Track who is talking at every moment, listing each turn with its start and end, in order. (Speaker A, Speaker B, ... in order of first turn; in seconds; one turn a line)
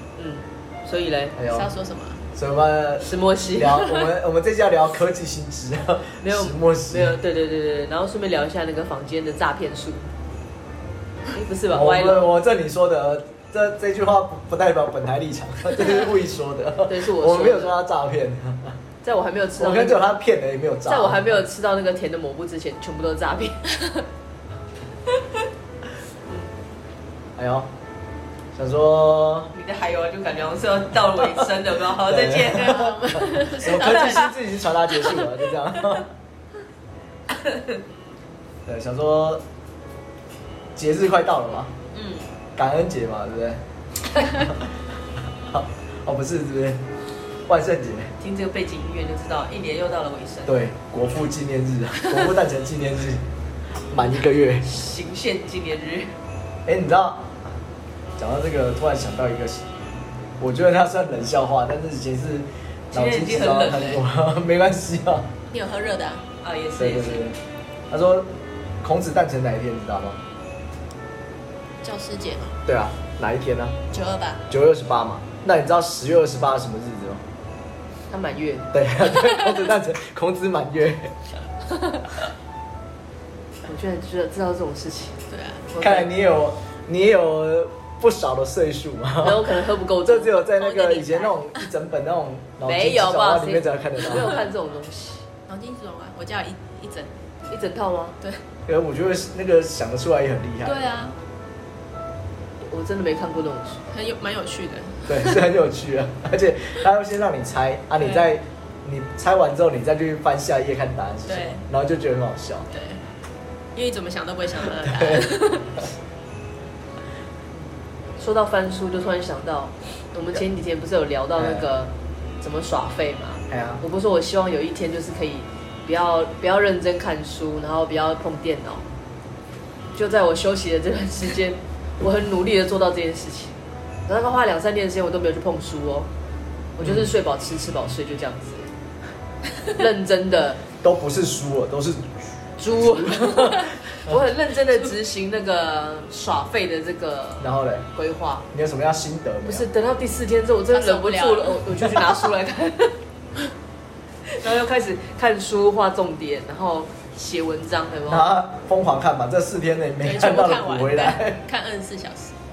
Speaker A: 0.2-1.4
Speaker B: 1.4-1.7
Speaker C: 1.5-2.2
Speaker B: 2.3-7.1
Speaker A: 3.0-4.1
Speaker A: 6.2-10.1
Speaker A: 11.3-12.3
Speaker B: 11.7-18.8
Speaker A: 16.9-17.8
Speaker A: 19.0-20.1
Speaker B: 19.6-21.4
Speaker A: 20.9-23.6
Speaker B: 27.4-27.7
Speaker B: 28.6-29.5
Speaker A: 29.5-33.1
Speaker B: 32.0-36.1
Speaker C: 32.5-34.3
Speaker A: 33.6-34.3
Speaker A: 37.3-37.8
Speaker B: 38.7-39.4
Speaker B: 40.8-41.7
Speaker A: 41.9-42.3
Speaker B: 42.6-43.6
Speaker B: 44.3-44.6
Speaker B: 45.5-46.8
Speaker B: 47.5-48.1
Speaker A: 48.2-50.5
Speaker B: 50.5-53.3
Speaker B: 53.9-54.7
Speaker A: 54.6-56.1
Speaker B: 56.7-57.3
Speaker B: 58.2-59.8
Speaker B: 60.4-65.3
Speaker A: 62.9-64.0
Speaker C: 65.5-66.2
Speaker A: 66.4-67.2
Speaker B: 66.8-67.4
Speaker B: 67.9-68.3
Speaker B: 68.8-70.2
Speaker C: 71.8-72.6
Speaker B: 72.7-73.8
Speaker C: 73.9-74.5
Speaker B: 74.5-77.2
Speaker A: 78.1-78.7
Speaker B: 78.7-81.1
Speaker A: 83.7-85.2
Speaker C: 85.3-85.7
Speaker A: 85.7-86.1
Speaker B: 85.8-94.4
Speaker A: 89.2-90.3
Speaker C: 90.5-91.4
Speaker A: 92.6-95.2
Speaker C: 95.5-97.2
Speaker A: 97.5-98.2
Speaker B: 98.7-100.9
Speaker C: 100.7-101.2
Speaker A: 102.6-103.8
Speaker C: 103.9-105.4
Speaker B: 105.1-112.7
Speaker C: 108.0-108.3
Speaker C: 111.3-111.6
Speaker C: 112.7-113.0
Speaker C: 113.8-115.8
Speaker B: 114.7-115.3
Speaker A: 118.2-128.8
Speaker B: 121.4-121.7
Speaker B: 123.5-123.8
Speaker A: 129.9-136.1
Speaker A: 136.8-138.7
Speaker A: 139.7-140.6
Speaker B: 140.8-142.2
Speaker A: 142.6-148.5
Speaker B: 142.9-143.7
Speaker B: 147.4-147.8
Speaker B: 148.5-149.7
Speaker A: 149.5-153.0
Speaker C: 150.7-151.6
Speaker A: 154.3-158.3
Speaker B: 158.1-161.4
Speaker C: 160.0-162.3